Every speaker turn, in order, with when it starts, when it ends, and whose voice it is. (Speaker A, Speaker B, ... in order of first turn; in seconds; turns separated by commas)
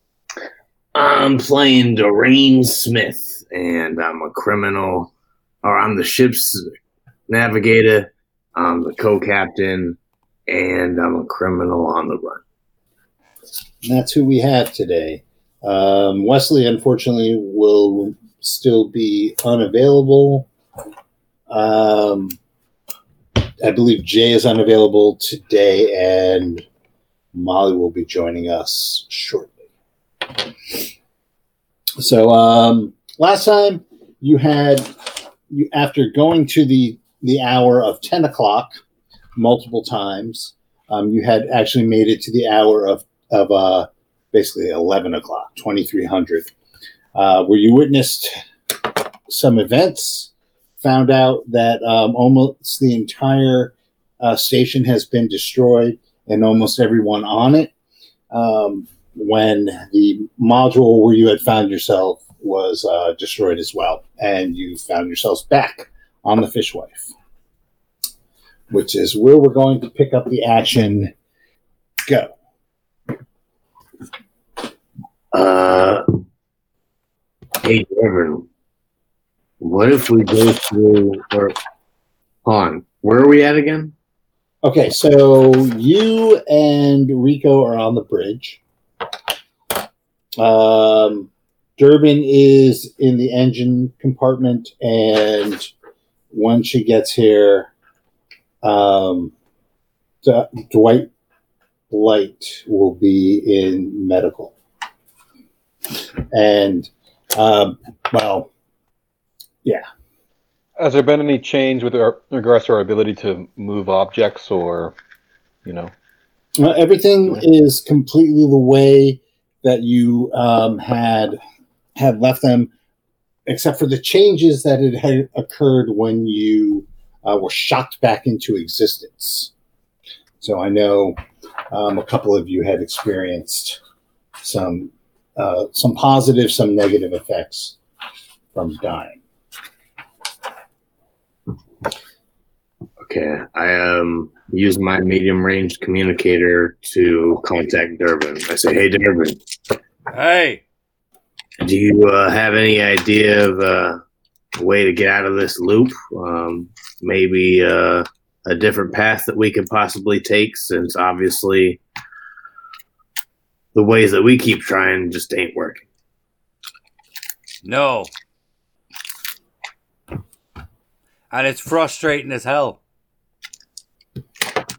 Speaker A: 0.9-5.1, Speaker A: 5.6-6.7, Speaker A: 7.3-12.4, Speaker B: 13.8-20.5, Speaker B: 21.5-22.4, Speaker B: 23.6-26.7, Speaker B: 27.3-29.6, Speaker B: 32.0-38.7, Speaker B: 39.4-46.5, Speaker B: 47.1-57.7, Speaker B: 58.3-67.1, Speaker B: 68.7-71.1, Speaker B: 72.1-72.3, Speaker A: 75.3-76.0, Speaker A: 77.6-78.5, Speaker A: 79.6-81.6, Speaker A: 82.5-83.9, Speaker B: 84.6-88.6, Speaker B: 90.4-95.7, Speaker B: 96.3-97.7, Speaker B: 98.6-99.3, Speaker B: 100.2-101.1, Speaker B: 101.9-104.5, Speaker B: 106.3-108.5, Speaker C: 110.8-115.0, Speaker C: 115.7-115.9, Speaker B: 116.6-121.4, Speaker B: 122.0-122.7, Speaker B: 123.5-129.5, Speaker B: 130.4-131.2, Speaker B: 131.7-133.8, Speaker B: 134.4-137.8, Speaker B: 138.5-139.2, Speaker A: 143.0-149.4, Speaker D: 150.1-150.6, Speaker A: 151.6-154.0, Speaker A: 154.6-161.8, Speaker A: 163.7-165.8, Speaker D: 167.6-168.1, Speaker D: 171.3-172.8